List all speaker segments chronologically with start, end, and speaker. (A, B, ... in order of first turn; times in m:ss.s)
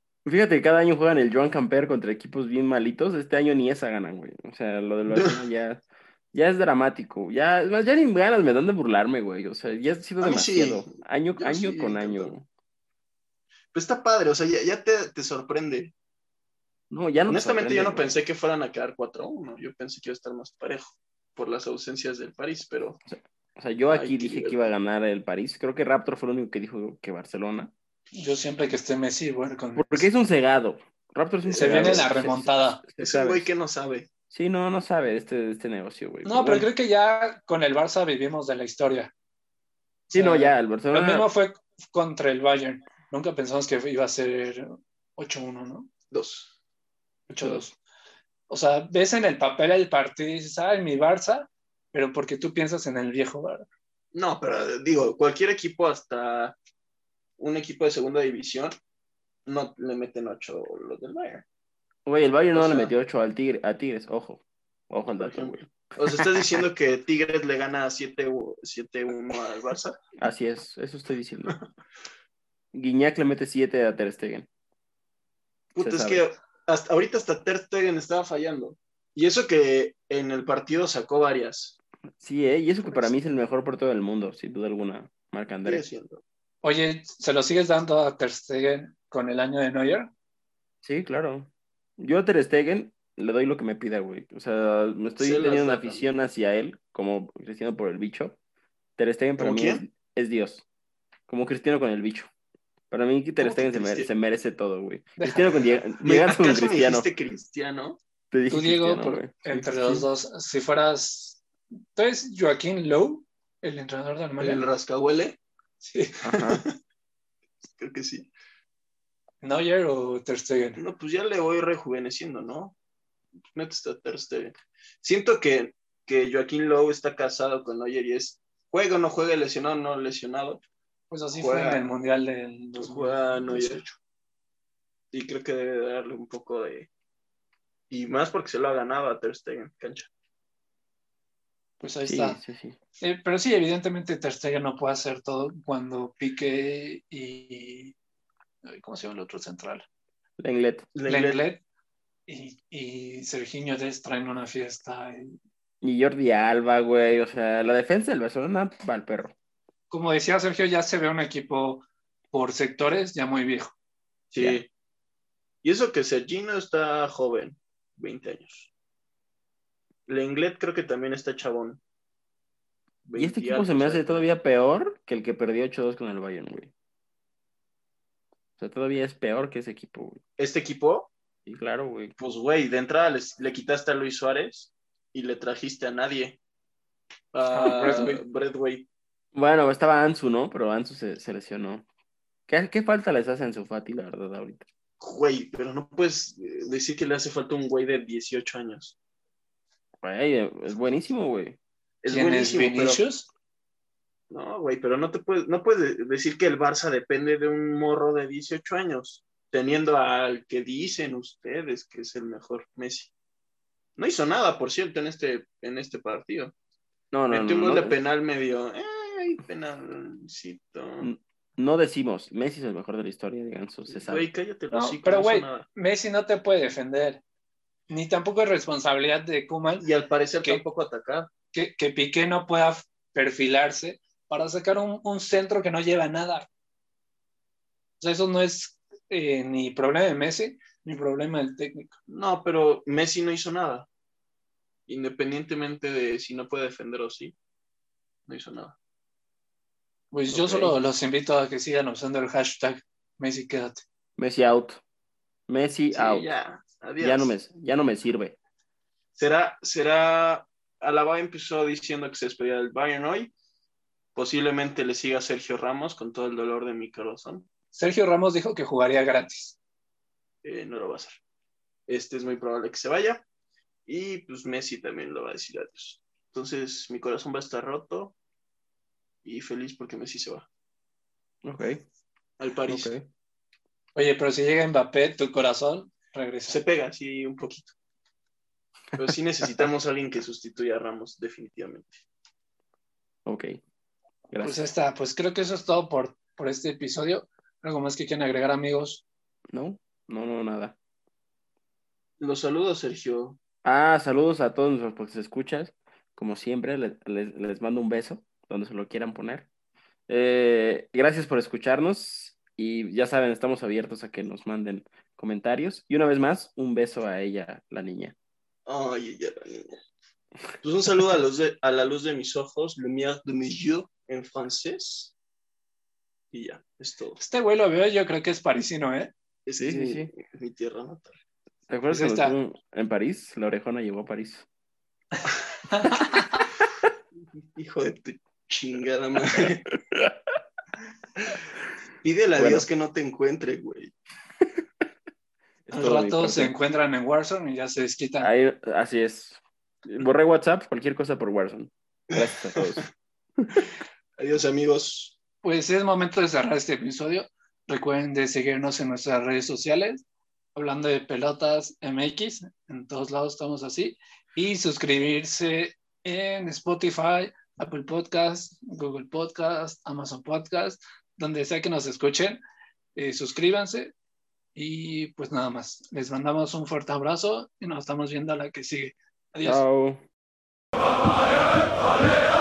0:00.2-0:12.5 A
0:05.1-0:05.4 B
0:10.2-0:12.3 B
0:13.7-0:15.9 B
0:16.9-0:18.2 A
0:17.3-0:23.0 B
0:23.1-0:27.7 A
0:23.9-0:24.7 B
0:28.1-0:30.1 C
0:29.8-0:33.5 A
0:31.4-0:32.1 B
0:31.6-0:32.8 C
0:33.0-0:34.1 B
0:34.3-0:36.7 A
0:36.2-0:39.1 C
0:40.1-0:41.3 A
0:40.1-0:45.9 C
0:46.1-0:46.5 B
0:47.3-0:47.8 C
0:48.5-0:53.7 C
0:54.1-0:56.6 B
0:57.4-0:58.8 B
0:59.5-1:01.4 B
1:02.1-1:06.4 A
1:02.5-1:02.9 B
1:05.1-1:10.0 B
1:10.2-1:11.6 A
1:12.7-1:14.5 A
1:15.8-1:21.8 B
1:15.8-1:16.2 A
1:22.2-1:25.8 A
1:22.9-1:23.1 B
1:25.6-1:26.2 B
1:26.6-1:30.1 C
1:30.8-1:38.4 A
1:35.2-1:36.0 B
1:39.0-1:40.6 A
1:39.4-1:39.8 B
1:41.3-1:42.3 A
1:42.9-1:47.1 A
1:43.4-1:44.1 B
1:45.2-1:45.8 C
1:46.0-1:48.0 B
1:48.3-1:50.1 A
1:48.5-1:51.4 C
1:52.0-1:54.6 C
1:54.4-1:55.4 B
1:55.8-1:56.4 C
1:56.2-1:56.6 A
1:57.6-1:58.3 B
1:59.4-2:00.8 C
2:00.8-2:02.8 B
2:03.5-2:10.6 B
2:11.1-2:14.0 C
2:11.3-2:11.9 B
2:12.8-2:13.8 B
2:15.1-2:16.9 B
2:17.9-2:20.1 B
2:21.8-2:22.4 C
2:22.0-2:22.8 A
2:23.0-2:28.0 C
2:28.6-2:29.9 C
2:30.4-2:30.9 A
2:31.0-2:31.4 B
2:31.1-2:31.6 C
2:32.3-2:35.4 C
2:35.8-2:39.3 A
2:39.9-2:43.7 C
2:44.3-2:44.7 B
2:45.6-2:48.7 B
2:50.1-2:51.8 B
2:53.0-2:54.3 B
2:53.2-2:56.7 A
2:58.6-3:00.2 A
3:00.4-3:01.1 B
3:01.5-3:02.1 A
3:02.2-3:06.4 B
3:07.3-3:08.9 B
3:07.5-3:08.2 C
3:07.8-3:08.1 A
3:09.3-3:11.9 A
3:12.5-3:14.7 A
3:15.0-3:19.0 B
3:20.0-3:21.6 A
3:22.0-3:23.0 B
3:22.1-3:23.3 C
3:24.3-3:33.1 B
3:34.0-3:36.5 B
3:37.1-3:38.0 A
3:37.3-3:41.1 B
3:41.0-3:44.3 A
3:43.9-3:45.7 B
3:44.7-3:47.2 C
3:47.9-3:49.9 C
3:49.8-3:51.3 B
3:51.5-3:56.5 C
3:58.0-4:02.0 C
4:02.1-4:03.9 B
4:04.9-4:07.4 B
4:08.3-4:08.8 B
4:10.1-4:13.8 C
4:10.3-4:10.7 A
4:14.2-4:14.8 A
4:15.5-4:16.3 A
4:15.9-4:17.3 B
4:17.0-4:18.4 A
4:19.2-4:23.3 B
4:24.2-4:27.5 B
4:27.7-4:29.6 C
4:30.4-4:31.2 B
4:31.9-4:33.2 B
4:33.9-4:38.2 B
4:39.2-4:40.5 B
4:41.4-4:41.8 A
4:42.4-4:42.9 B
4:42.7-4:43.0 A
4:44.0-4:46.6 C
4:46.5-4:47.7 B
4:49.0-4:52.0 B
4:53.2-4:53.6 A
4:54.3-4:54.6 A
4:54.4-4:59.0 C
4:59.5-5:00.8 A
5:02.2-5:03.4 B
5:03.6-5:09.5 A
5:10.1-5:18.1 A
5:18.7-5:19.8 B
5:20.6-5:25.1 B
5:26.3-5:27.2 B
5:27.2-5:29.1 C
5:29.5-5:31.2 B
5:29.6-5:30.1 A
5:31.7-5:34.5 A
5:31.9-5:32.4 C
5:35.7-5:36.5 C
5:37.6-5:39.7 B
5:42.0-5:43.9 B
5:42.4-5:42.7 A
5:45.7-5:46.5 A
5:45.7-5:48.3 C
5:48.2-5:52.8 A
5:52.1-5:52.9 B
5:54.2-5:55.2 B
5:55.4-6:12.4 C
6:13.0-6:13.9 C
6:14.6-6:19.6 C
6:19.4-6:20.0 A